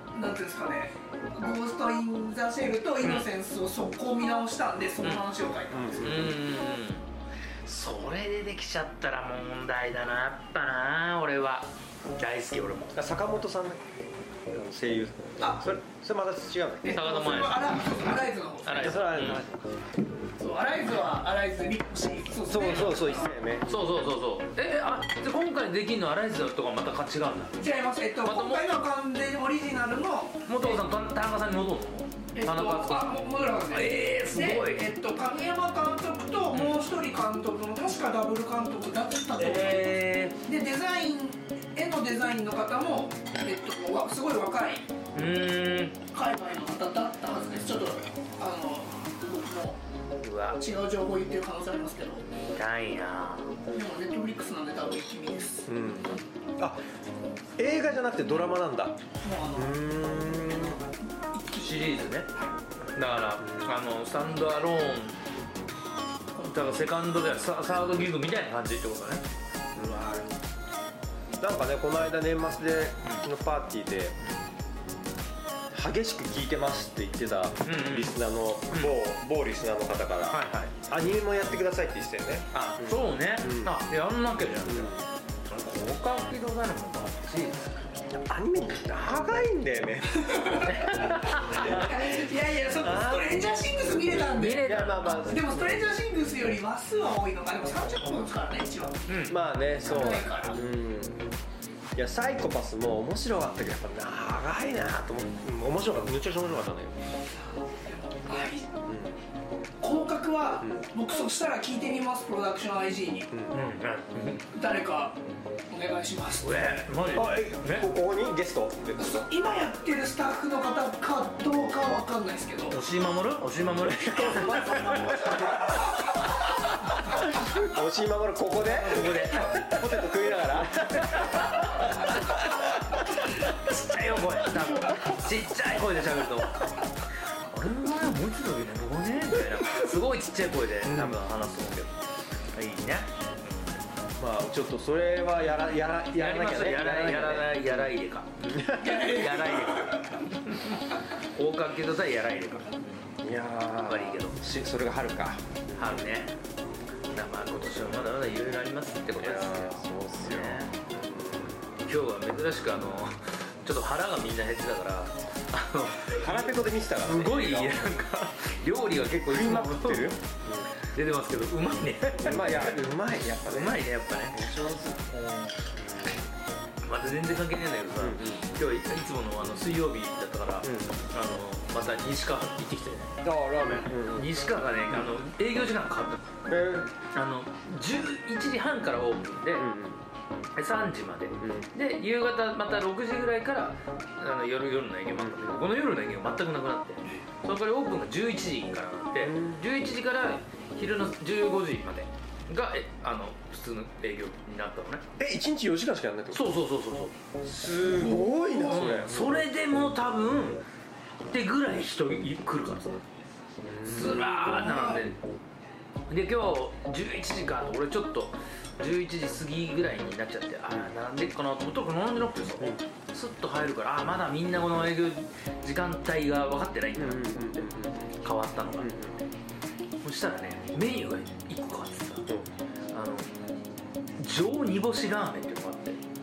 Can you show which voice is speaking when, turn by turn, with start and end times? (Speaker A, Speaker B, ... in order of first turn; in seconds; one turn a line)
Speaker A: 0.1-6.1
Speaker B: 3.0-3.3
Speaker C: 5.7-6.4
Speaker B: 6.0-7.1
Speaker B: 7.7-13.0
Speaker C: 12.9-13.9
Speaker C: 14.5-17.1
Speaker A: 15.4-15.7
Speaker A: 16.8-19.0
Speaker B: 16.9-17.6
Speaker B: 18.6-19.4
Speaker C: 18.8-19.9
Speaker A: 20.4-23.4
Speaker C: 22.5-23.7
Speaker B: 22.6-23.0
Speaker B: 23.6-27.6
Speaker A: 27.6-30.8
Speaker B: 28.2-28.7
Speaker B: 30.5-33.1
Speaker A: 32.4-44.9
Speaker B: 33.7-34.9
Speaker B: 36.5-36.8
Speaker B: 39.4-40.4
Speaker B: 45.1-46.0
Speaker A: 46.1-49.8
Speaker B: 50.2-50.6
Speaker A: 50.6-52.2
Speaker B: 52.5-53.6
Speaker A: 53.7-55.8
Speaker C: 55.7-56.8
Speaker C: 57.6-59.0
Speaker A: 59.2-59.8
Speaker C: 59.5-60.8
Speaker A: 61.3-62.1
Speaker B: 61.5-62.3
Speaker B: 63.0-65.2
Speaker C: 63.4-63.7
Speaker B: 66.4-69.2
Speaker C: 69.8-70.3
Speaker C: 71.4-74.2
Speaker C: 75.8-83.8
Speaker B: 77.6-78.2
Speaker B: 78.7-79.0
Speaker B: 80.3-80.7
Speaker B: 82.5-85.0
Speaker C: 84.6-85.1
Speaker B: 85.5-88.0
Speaker C: 88.2-90.9
Speaker A: 90.2-90.6
Speaker B: 90.6-91.9
Speaker C: 91.5-91.9
Speaker A: 91.7-99.0
Speaker C: 92.8-93.4
Speaker B: 94.3-95.3
Speaker C: 94.6-95.8
Speaker B: 99.1-99.4
Speaker C: 99.3-101.3
Speaker A: 99.8-100.6
Speaker C: 102.0-107.0
Speaker A: 107.6-108.7
Speaker C: 108.9-109.2
Speaker A: 109.8-113.3
Speaker C: 113.3-113.6
Speaker B: 113.5-114.5
Speaker A: 114.5-115.2
Speaker A: 115.7-116.9
Speaker B: 116.4-117.9
Speaker C: 117.1-119.2
Speaker A: 119.0-122.8
Speaker B: 122.7-126.2
Speaker C: 124.0-125.7
Speaker A: 124.6-125.4
Speaker C: 127.4-131.8
Speaker B: 128.6-130.1
Speaker B: 131.0-136.7
Speaker B: 137.5-141.9
Speaker C: 140.8-141.2
Speaker B: 142.5-143.8
Speaker C: 144.2-147.9
Speaker B: 146.1-153.1
Speaker C: 148.5-149.0
Speaker A: 148.8-150.1
Speaker C: 153.2-156.1
Speaker B: 153.9-154.4
Speaker B: 155.8-156.3
Speaker B: 157.1-160.7
Speaker C: 157.5-158.2
Speaker C: 159.2-161.6
Speaker B: 161.9-170.2
Speaker C: 166.1-167.8
Speaker C: 169.0-170.7
Speaker B: 170.8-172.9
Speaker C: 172.2-175.0
Speaker B: 173.4-174.5
Speaker B: 175.1-175.7
Speaker B: 176.8-186.3
Speaker C: 178.0-178.5
Speaker C: 180.6-180.9
Speaker C: 183.2-184.3
Speaker C: 184.9-185.1
Speaker C: 186.5-186.9
Speaker B: 187.1-189.7
Speaker C: 189.6-190.0
Speaker B: 190.6-205.1
Speaker C: 191.4-191.7
Speaker C: 195.2-195.6
Speaker C: 199.2-199.6
Speaker C: 205.2-206.5
Speaker B: 206.3-207.1
Speaker C: 207.4-209.4
Speaker B: 207.8-210.6
Speaker B: 211.3-213.0
Speaker C: 213.6-214.6
Speaker B: 213.8-215.2
Speaker A: 214.4-215.0
Speaker B: 216.1-227.7
Speaker C: 227.0-228.2
Speaker B: 228.2-229.0
Speaker C: 228.8-229.2
Speaker B: 230.0-232.2
Speaker B: 232.9-233.4
Speaker B: 234.2-236.0